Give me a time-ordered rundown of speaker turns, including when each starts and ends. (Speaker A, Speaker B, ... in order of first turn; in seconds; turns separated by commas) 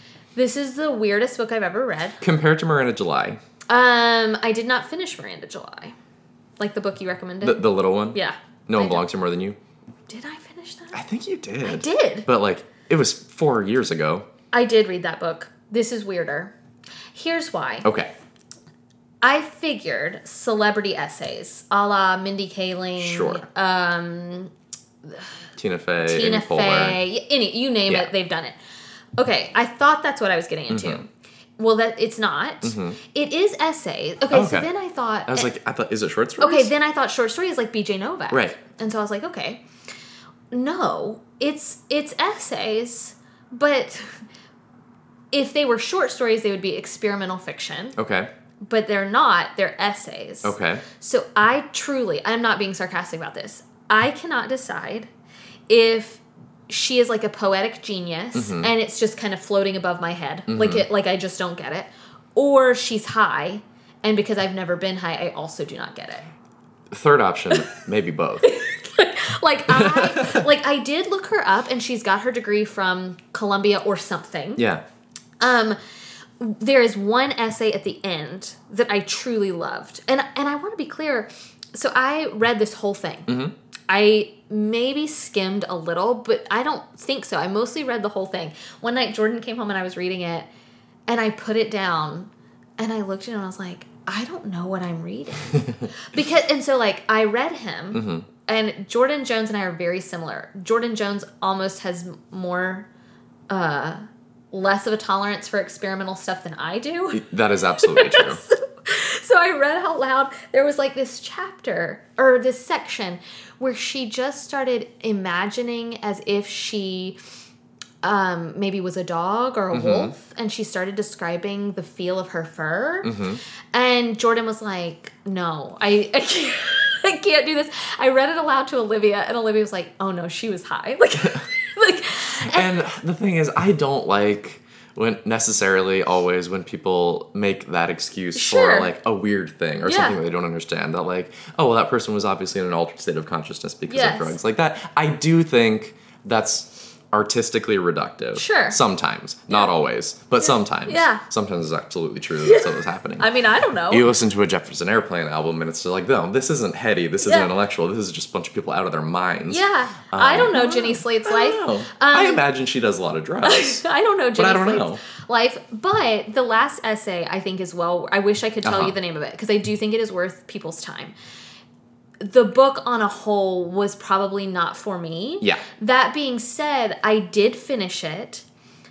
Speaker A: 0.3-2.2, Speaker B: 2.2-3.4, Speaker A: 3.7-6.0, Speaker A: 6.6-9.0, Speaker B: 7.4-9.6, Speaker A: 10.1-11.0, Speaker B: 10.9-14.3, Speaker A: 11.6-12.3, Speaker A: 14.5-16.5, Speaker A: 17.1-17.9, Speaker B: 17.8-18.1, Speaker A: 19.2-24.5, Speaker B: 23.0-23.4, Speaker A: 25.1-25.3, Speaker B: 25.6-27.0, Speaker A: 26.0-28.6, Speaker A: 29.2-35.5, Speaker B: 30.7-31.0, Speaker B: 32.6-33.0, Speaker B: 34.3-34.7, Speaker B: 35.3-36.7, Speaker A: 36.4-39.6, Speaker B: 38.3-38.6, Speaker A: 40.5-44.2, Speaker A: 45.3-48.0, Speaker B: 48.0-48.3, Speaker A: 48.6-55.1, Speaker B: 50.4-50.9, Speaker A: 55.7-66.3, Speaker B: 58.4-58.7, Speaker B: 60.5-60.9, Speaker B: 66.9-68.5, Speaker A: 68.4-74.6, Speaker B: 69.7-70.4, Speaker B: 74.6-74.8, Speaker A: 75.4-75.8, Speaker A: 76.4-83.3, Speaker B: 83.3-83.5, Speaker A: 83.9-90.5, Speaker A: 91.1-102.9, Speaker B: 97.9-98.3, Speaker A: 103.5-107.2, Speaker B: 107.1-108.4, Speaker A: 107.8-117.2, Speaker A: 118.0-123.2, Speaker B: 119.7-120.1, Speaker B: 123.0-123.4, Speaker A: 123.7-132.7, Speaker B: 131.2-131.5, Speaker B: 132.5-153.3, Speaker A: 138.3-138.9, Speaker A: 139.8-140.2, Speaker A: 143.9-144.3, Speaker A: 148.3-148.8, Speaker A: 150.4-151.2, Speaker A: 152.4-154.1, Speaker B: 153.9-163.8, Speaker A: 157.2-157.5, Speaker A: 159.5-162.4, Speaker A: 163.4-171.1, Speaker B: 164.3-165.0, Speaker B: 168.7-168.9, Speaker A: 172.2-178.4